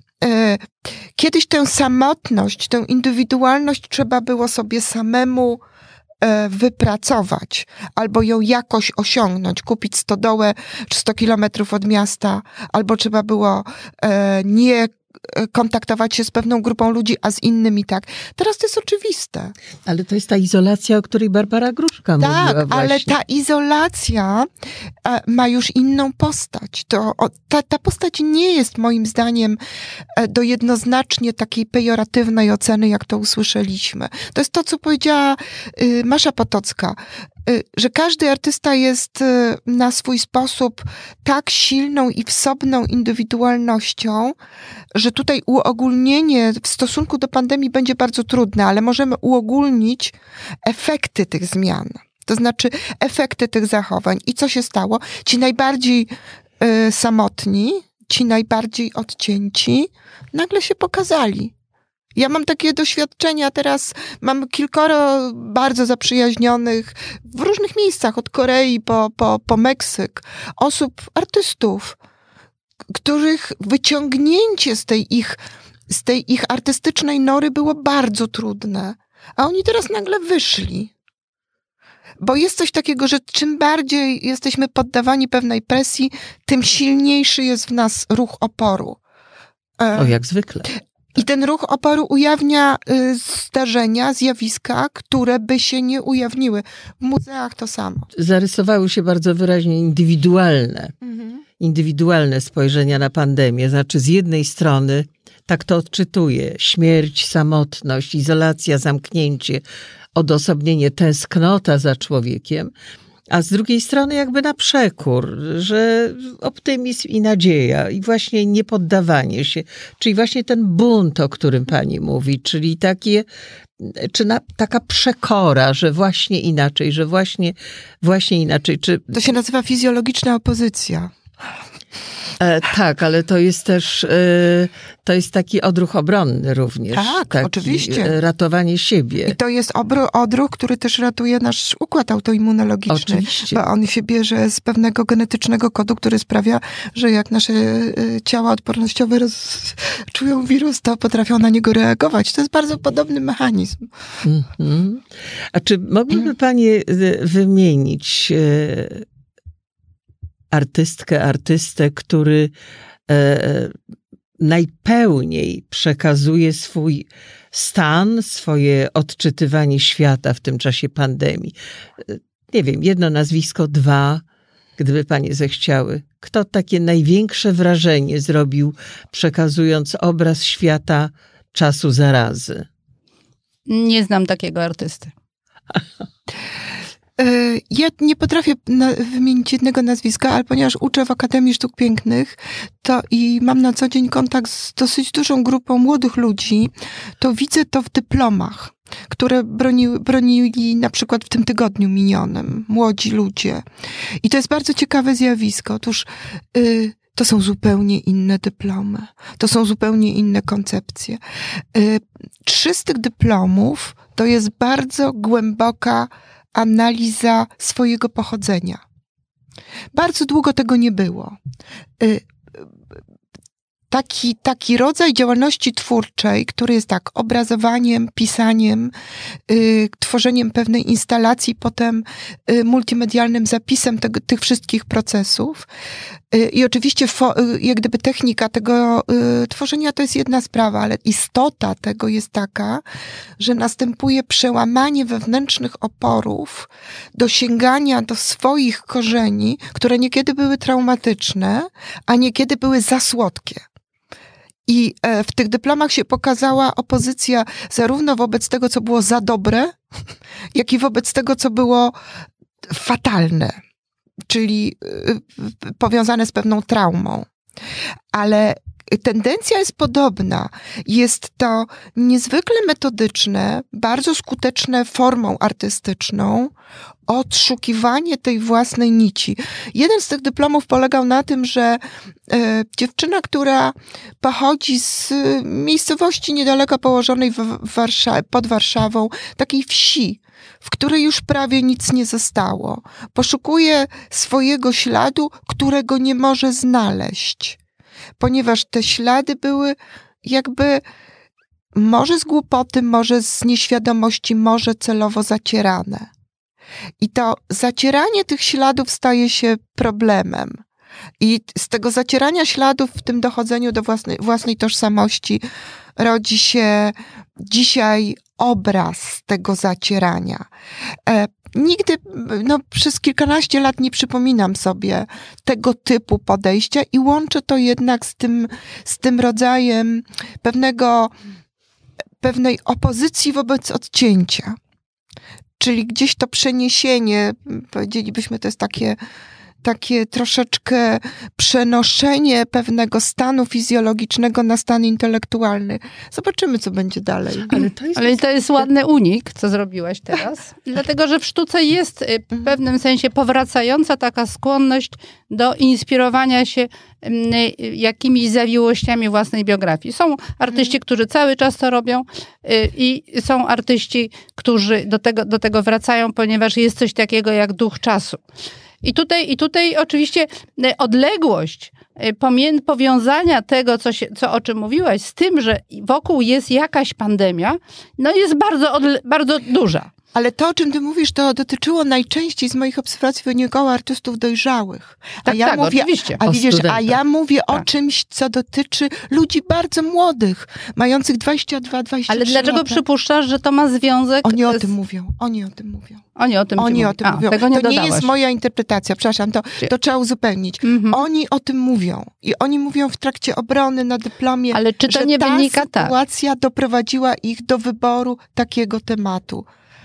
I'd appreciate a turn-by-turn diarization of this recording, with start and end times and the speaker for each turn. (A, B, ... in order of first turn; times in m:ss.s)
0:00.2-0:05.6 A
0:06.2-0:19.5 A
0:19.8-0:23.1 B
0:22.2-0:24.5 A
0:25.0-0:29.6 A
0:30.2-0:44.4 A
0:44.9-0:56.1 A
0:56.6-1:01.5 A
1:02.1-1:12.0 A
1:12.9-1:20.9 A
1:22.2-1:29.0 A
1:29.8-1:30.1 A
1:30.0-1:30.7 B
1:31.1-1:38.1 A
1:38.1-1:40.9 B
1:41.0-1:41.4 A
1:41.6-1:49.6 B
1:50.2-1:52.7 B
1:53.3-2:03.2 B
2:03.8-2:09.1 B
2:09.1-2:11.1 A
2:12.4-2:19.4 B
2:16.9-2:18.1 A
2:19.2-2:33.9 A
2:22.9-2:23.6 B
2:34.2-2:39.0 B
2:40.5-2:42.5 B
2:43.1-2:43.7 B
2:44.4-2:54.2 B
2:54.8-3:02.7 B
3:03.7-3:05.1 C
3:07.2-3:23.6 A
3:24.2-3:31.2 A
3:31.7-3:38.8 A
3:39.9-3:41.4 A
3:42.0-3:42.6 A
3:43.9-3:48.9 A
3:49.5-3:55.7 A
3:56.3-4:02.8 A
4:03.4-4:13.6 A
4:14.7-4:19.8 A
4:20.5-4:21.9 A
4:22.6-4:23.5 A
4:24.3-4:27.3 A
4:28.1-4:36.5 A
4:37.1-4:57.6 A
4:58.2-5:00.8 A
5:01.7-5:06.1 A
5:07.0-5:10.6 A
5:11.2-5:15.4 A
5:16.0-5:20.5 A
5:21.0-5:31.1 A
5:32.2-5:34.5 A
5:35.6-5:39.0 A
5:39.6-5:47.6 A
5:47.5-5:48.6 B
5:48.0-6:08.2 C
6:08.8-6:19.9 C
6:20.1-6:32.8 A
6:25.2-6:26.2 C
6:26.2-6:27.0 B
6:32.1-6:34.7 C
6:34.2-6:36.0 A
6:36.2-6:38.1 C
6:36.6-6:49.5 A
6:40.6-6:41.0 C
6:44.5-6:45.9 C